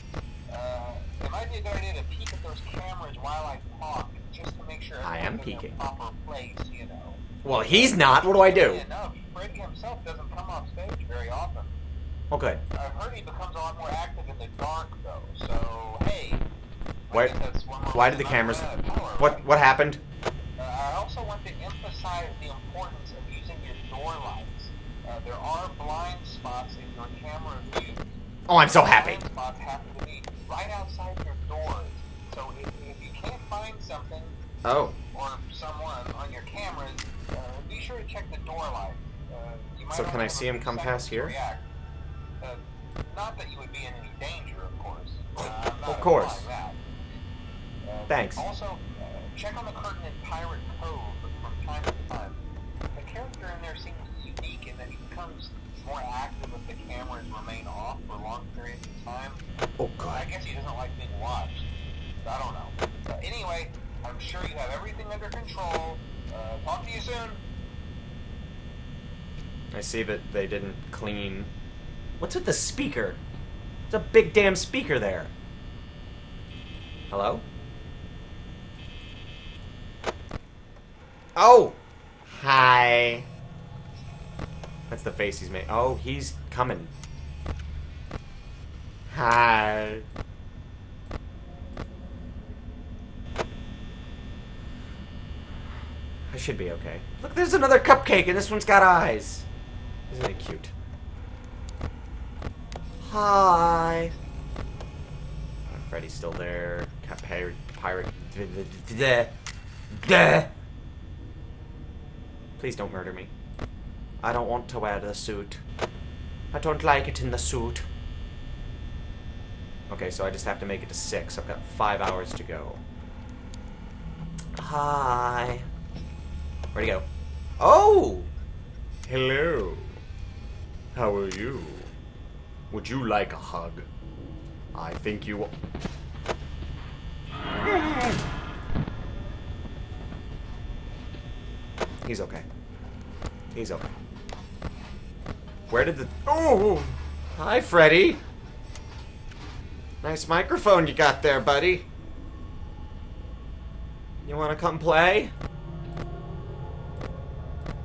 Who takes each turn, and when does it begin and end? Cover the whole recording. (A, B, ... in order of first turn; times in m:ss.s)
0:00.5-0:11.8 A
0:05.0-0:05.8 B
0:07.4-0:08.8 B
0:12.3-0:12.6 B
0:12.7-0:16.4 A
0:17.1-0:19.4 A
0:17.9-0:18.7 B
0:19.2-0:20.0 B
0:20.6-0:28.0 A
0:28.5-0:29.2 B
0:28.7-0:34.4 A
0:34.6-0:35.0 B
0:35.1-0:41.6 A
0:39.9-0:41.3 B
0:42.4-0:46.8 A
0:45.4-0:46.5 B
0:47.8-0:52.4 A
0:48.1-0:48.4 B
0:52.9-0:59.4 A
0:59.8-1:00.2 B
1:00.0-1:01.6 A
1:02.2-1:07.4 A
1:09.7-1:11.5 B
1:12.2-1:13.2 B
1:13.9-1:15.3 B
1:17.1-1:17.4 B
1:21.4-1:23.3 B
1:24.9-1:26.9 B
1:29.1-1:30.0 B
1:36.3-1:39.5 B
1:40.1-1:40.7 B
1:43.0-1:44.1 B
1:45.7-1:49.3 B
1:49.9-1:50.5 B
1:52.6-1:53.3 B
1:54.2-1:55.6 B
1:56.5-1:57.8 B
1:59.9-2:02.8 B
2:04.6-2:05.6 B
2:06.7-2:07.0 B
2:07.6-2:08.3 B
2:09.0-2:10.0 B
2:10.9-2:11.9 B
2:12.7-2:13.9 B
2:14.7-2:15.5 B
2:17.6-2:18.2 B
2:22.0-2:22.4 B
2:23.5-2:23.9 B
2:25.7-2:28.2 B
2:30.0-2:31.9 B
2:34.2-2:35.3 B